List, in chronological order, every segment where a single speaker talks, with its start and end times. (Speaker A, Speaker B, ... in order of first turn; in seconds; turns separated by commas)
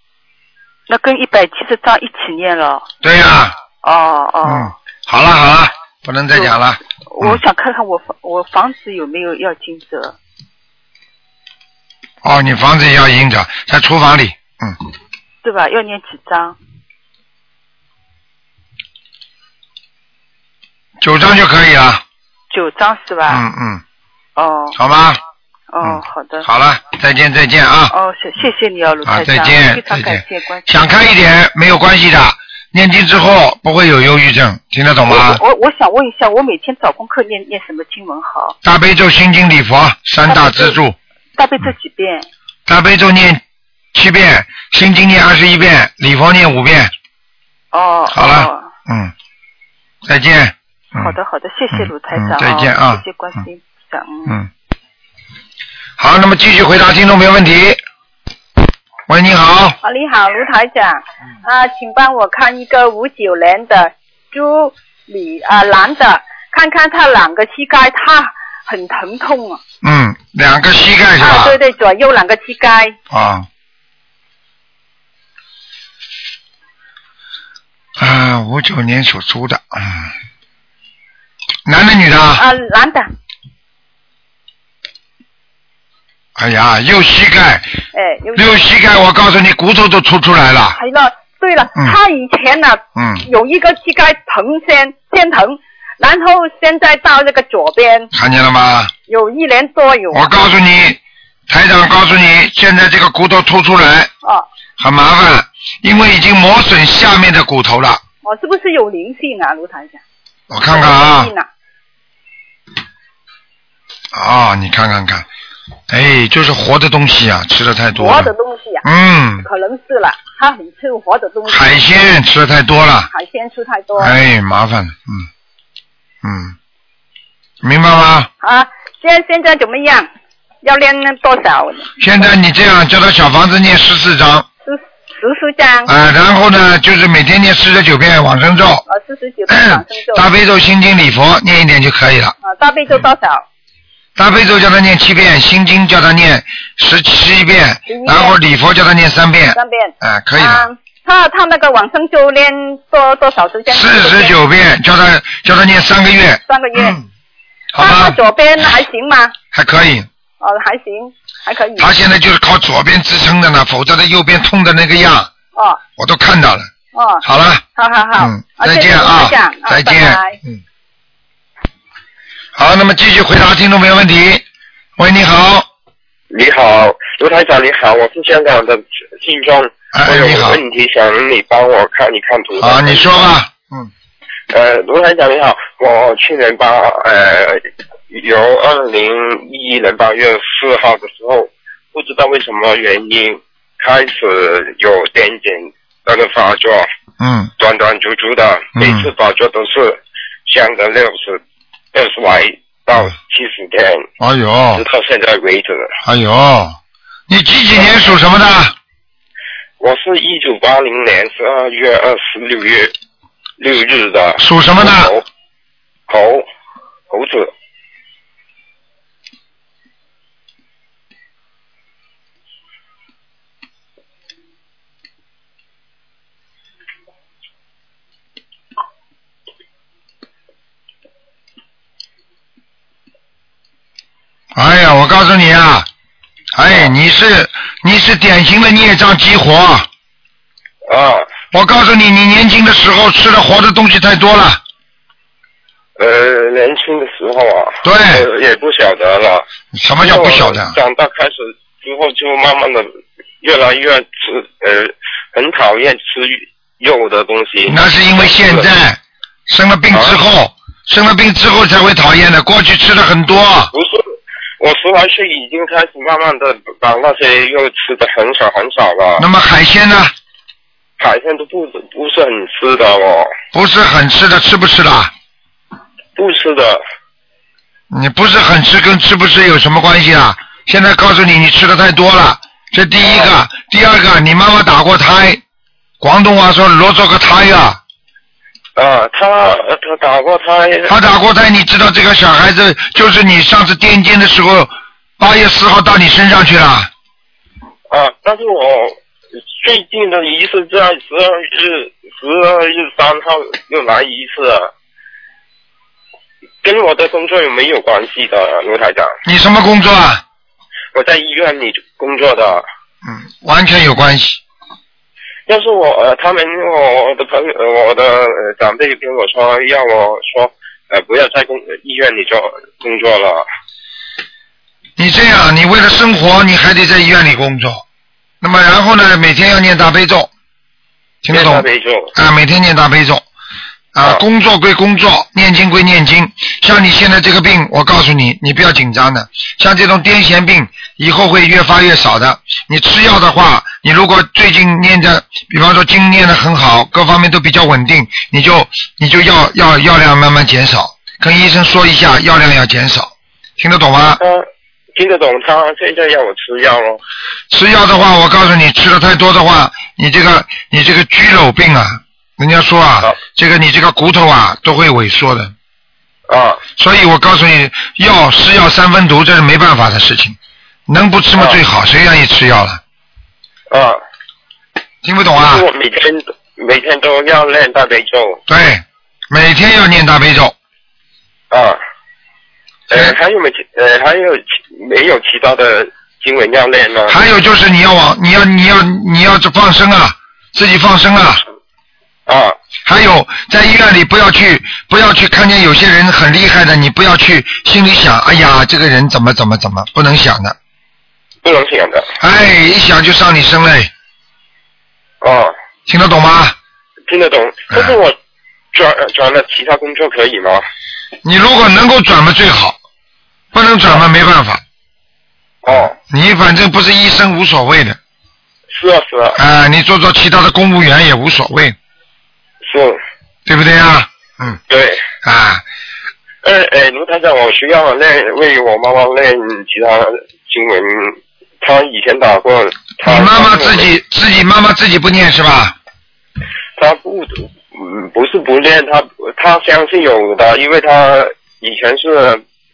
Speaker A: 0.9-2.9, Speaker B: 3.0-3.6, Speaker A: 3.8-4.8, Speaker B: 4.4-7.4, Speaker A: 7.1-10.2, Speaker B: 12.2-14.8, Speaker A: 15.4-16.6, Speaker B: 21.0-22.0, Speaker A: 22.5-23.4, Speaker B: 23.3-23.8, Speaker A: 24.4-24.8, Speaker B: 24.8-25.2, Speaker A: 25.7-26.5, Speaker B: 25.8-27.9, Speaker A: 27.9-31.1, Speaker B: 29.1-35.4, Speaker A: 35.0-38.6, Speaker B: 38.6-41.0, Speaker A: 40.2-40.8, Speaker A: 41.4-42.3, Speaker B: 42.7-43.4, Speaker B: 43.9-46.9, Speaker A: 47.7-48.7, Speaker B: 48.1-49.1, Speaker B: 50.1-51.1, Speaker A: 50.9-54.4, Speaker B: 51.7-53.0, Speaker B: 56.0-57.8, Speaker B: 59.1-59.8, Speaker C: 59.8-69.6, Speaker B: 69.8-71.6, Speaker C: 71.2-73.0, Speaker B: 73.1-73.5, Speaker B: 78.0-80.1, Speaker B: 81.7-82.4, Speaker C: 82.4-83.1, Speaker B: 86.4-87.7, Speaker C: 87.9-88.5, Speaker B: 88.3-90.8, Speaker C: 90.8-98.1, Speaker B: 93.0-93.2, Speaker B: 98.1-98.9, Speaker C: 99.1-100.3, Speaker B: 100.1-104.1, Speaker B: 104.8-108.0, Speaker C: 108.2-110.0, Speaker B: 110.5-111.3, Speaker C: 110.7-111.5, Speaker B: 114.1-115.3, Speaker B: 115.9-118.3, Speaker C: 118.0-118.8, Speaker B: 118.8-119.5, Speaker C: 119.4-121.8, Speaker B: 121.5-123.1, Speaker C: 123.1-124.2, Speaker B: 124.0-125.3, Speaker B: 126.2-126.5, Speaker B: 127.6-128.3, Speaker C: 128.4-130.1, Speaker C: 130.6-131.9, Speaker B: 132.0-134.5, Speaker C: 134.7-135.9, Speaker B: 135.9-138.8, Speaker C: 138.9-140.2, Speaker B: 139.5-142.3, Speaker C: 142.4-143.4, Speaker B: 144.2-150.7, Speaker C: 147.9-148.4, Speaker C: 149.5-154.3, Speaker B: 153.7-157.0, Speaker C: 156.5-157.0, Speaker B: 157.7-158.2, Speaker C: 157.8-159.3, Speaker B: 159.5-160.1, Speaker C: 160.4-161.9, Speaker B: 161.8-165.3, Speaker C: 165.5-165.8, Speaker B: 166.0-166.7, Speaker C: 166.9-167.2, Speaker B: 167.2-167.6, Speaker C: 167.8-170.4, Speaker B: 168.2-170.6, Speaker B: 172.6-174.4, Speaker B: 175.0-175.7, Speaker D: 176.3-183.3, Speaker B: 179.9-180.6, Speaker B: 182.6-183.9, Speaker D: 184.5-196.9, Speaker B: 197.2-197.5, Speaker D: 197.6-201.4, Speaker B: 198.8-199.1, Speaker D: 201.9-204.1, Speaker B: 204.2-204.8, Speaker D: 204.8-206.0, Speaker B: 206.0-206.8, Speaker B: 207.3-208.8, Speaker D: 209.8-212.9, Speaker D: 213.6-215.2, Speaker B: 214.4-215.1, Speaker D: 216.1-216.4, Speaker D: 217.1-217.5, Speaker B: 234.6-235.9, Speaker B: 236.5-239.9, Speaker D: 240.9-241.3, Speaker B: 241.5-244.6, Speaker D: 246.0-249.5, Speaker B: 247.8-248.3, Speaker B: 249.7-250.8, Speaker D: 250.0-252.9, Speaker D: 253.4-258.7, Speaker B: 257.7-263.7, Speaker D: 259.9-260.2, Speaker D: 263.7-264.1, Speaker D: 264.6-269.2, Speaker B: 269.2-270.1, Speaker D: 271.0-273.3, Speaker B: 273.5-275.1, Speaker D: 276.2-276.8, Speaker B: 277.9-285.4, Speaker D: 283.0-283.3, Speaker B: 286.0-287.8, Speaker D: 288.8-290.9, Speaker B: 290.9-296.9, Speaker D: 297.9-299.0, Speaker D: 299.6-304.7, Speaker D: 306.6-309.2, Speaker B: 309.2-310.2, Speaker D: 310.9-312.6, Speaker B: 313.1-314.4, Speaker D: 315.5-323.4, Speaker B: 325.0-327.8, Speaker B: 328.4-330.3, Speaker B: 331.2-333.2, Speaker D: 331.3-332.1, Speaker B: 333.9-354.2, Speaker D: 354.2-357.0, Speaker B: 357.5-365.5, Speaker D: 366.3-366.6, Speaker B: 366.8-370.4, Speaker B: 370.9-372.8, Speaker D: 373.7-374.0, Speaker B: 375.0-375.7, Speaker D: 375.4-378.4, Speaker B: 378.5-380.6, Speaker D: 381.5-381.8, Speaker B: 382.9-383.2, Speaker D: 382.9-387.2, Speaker B: 387.1-391.4, Speaker D: 392.3-392.6, Speaker B: 392.9-400.6, Speaker D: 401.4-402.1, Speaker B: 402.2-403.9, Speaker D: 405.2-405.6, Speaker B: 405.9-406.6, Speaker D: 407.1-408.1, Speaker B: 407.7-408.0, Speaker D: 408.7-410.6, Speaker B: 411.2-412.8, Speaker B: 413.5-414.6, Speaker D: 415.6-415.9, Speaker B: 415.7-418.0, Speaker D: 418.7-419.4, Speaker B: 419.4-421.8, Speaker D: 422.6-423.0, Speaker B: 423.5-424.6, Speaker D: 424.7-425.1, Speaker B: 425.2-425.6, Speaker D: 426.4-433.9, Speaker B: 433.0-435.8, Speaker D: 436.8-442.4